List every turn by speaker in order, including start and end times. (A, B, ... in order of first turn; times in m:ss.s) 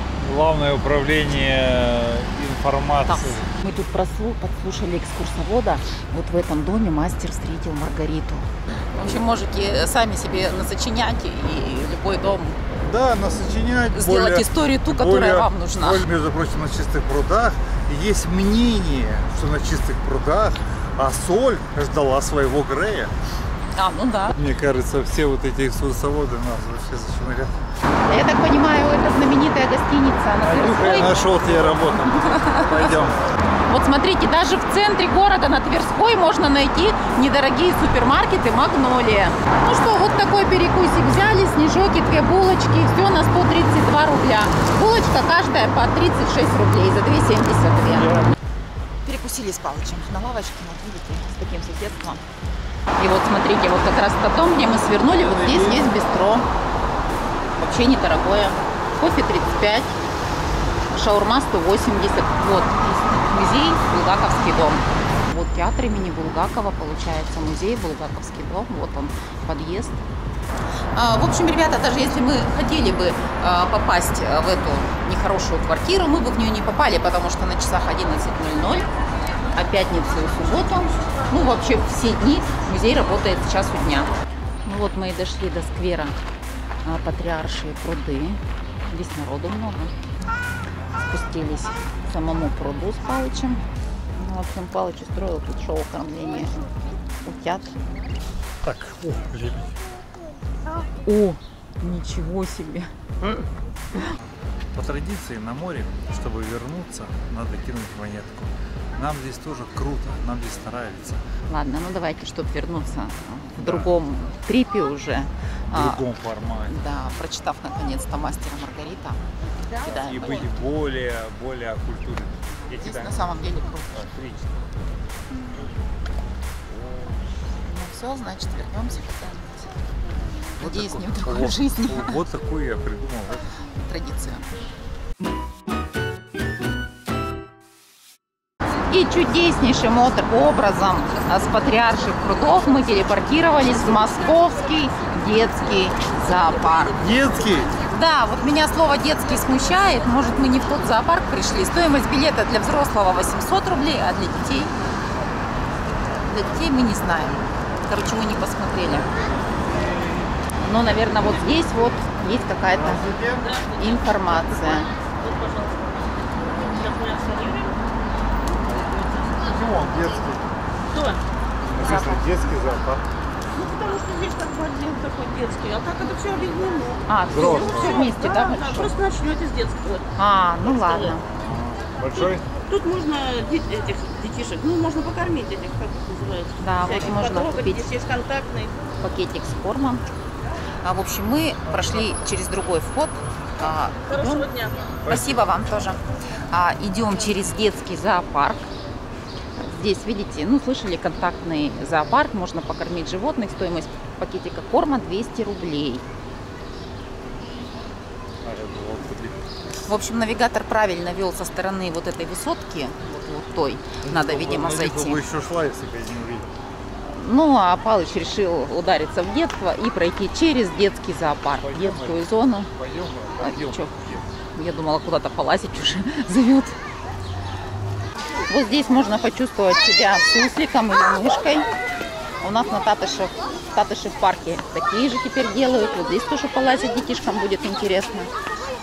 0:00.2-0:03.5 A
0:03.0-0:12.6 B
0:12.8-0:23.1 A
0:13.9-0:16.0 B
0:23.8-0:24.4 B
0:24.3-0:27.6 A
0:28.0-0:31.3 B
0:30.4-0:33.2 A
0:32.1-0:32.9 B
0:33.7-0:48.3 B
0:48.0-0:48.2 A
0:49.0-0:52.2 B
0:53.0-0:56.5 B
0:55.2-0:55.9 A
0:57.6-0:59.9 B
1:00.9-1:10.0 B
1:10.9-1:18.9 B
1:19.5-1:24.1 B
1:24.6-1:26.2 B
1:26.8-1:29.9 B
1:31.1-1:33.6 B
1:34.1-1:36.5 B
1:37.2-1:37.7 B
1:38.6-1:39.7 A
1:41.0-1:42.9 B
1:44.7-1:51.2 A
1:51.5-1:56.0 B
1:53.6-1:53.9 A
1:55.7-1:56.8 A
1:56.6-1:59.2 B
1:59.7-2:00.5 B
1:59.8-2:04.7 A
2:02.7-2:03.9 B
2:07.6-2:09.7 B
2:10.6-2:12.2 B
2:10.6-2:13.5 A
2:13.8-2:14.4 B
2:18.9-2:27.0 B
2:27.0-2:27.7 A
2:27.9-2:34.7 B
2:36.2-2:39.1 B
2:39.7-2:40.1 A
2:40.6-2:43.0 B
2:42.7-2:43.4 A
2:43.4-2:44.0 C
2:43.8-2:44.9 B
2:44.7-2:47.9 C
2:48.6-2:49.4 C
2:48.6-2:50.6 A
2:50.9-2:51.2 C
2:51.6-2:53.0 A
2:51.7-2:52.2 B
2:53.5-3:00.1 C
2:57.1-2:58.9 B
2:57.3-2:58.0 A
3:00.2-3:01.2 B
3:00.6-3:01.1 C
3:01.3-3:02.4 A
3:02.7-3:08.8 C
3:06.6-3:07.9 B
3:09.0-3:10.0 B
3:10.8-3:14.5 B
3:14.1-3:14.7 C
3:15.0-3:15.4 A
3:15.1-3:16.0 B
3:16.5-3:18.7 B
3:19.6-3:26.0 B
3:28.4-3:29.4 A
3:29.8-3:35.2 B
3:34.0-3:36.5 A
3:37.1-3:42.7 B
3:41.6-3:44.2 A
3:43.4-3:44.0 B
3:44.5-3:46.8 B
3:48.5-3:51.7 B
3:52.4-3:58.3 B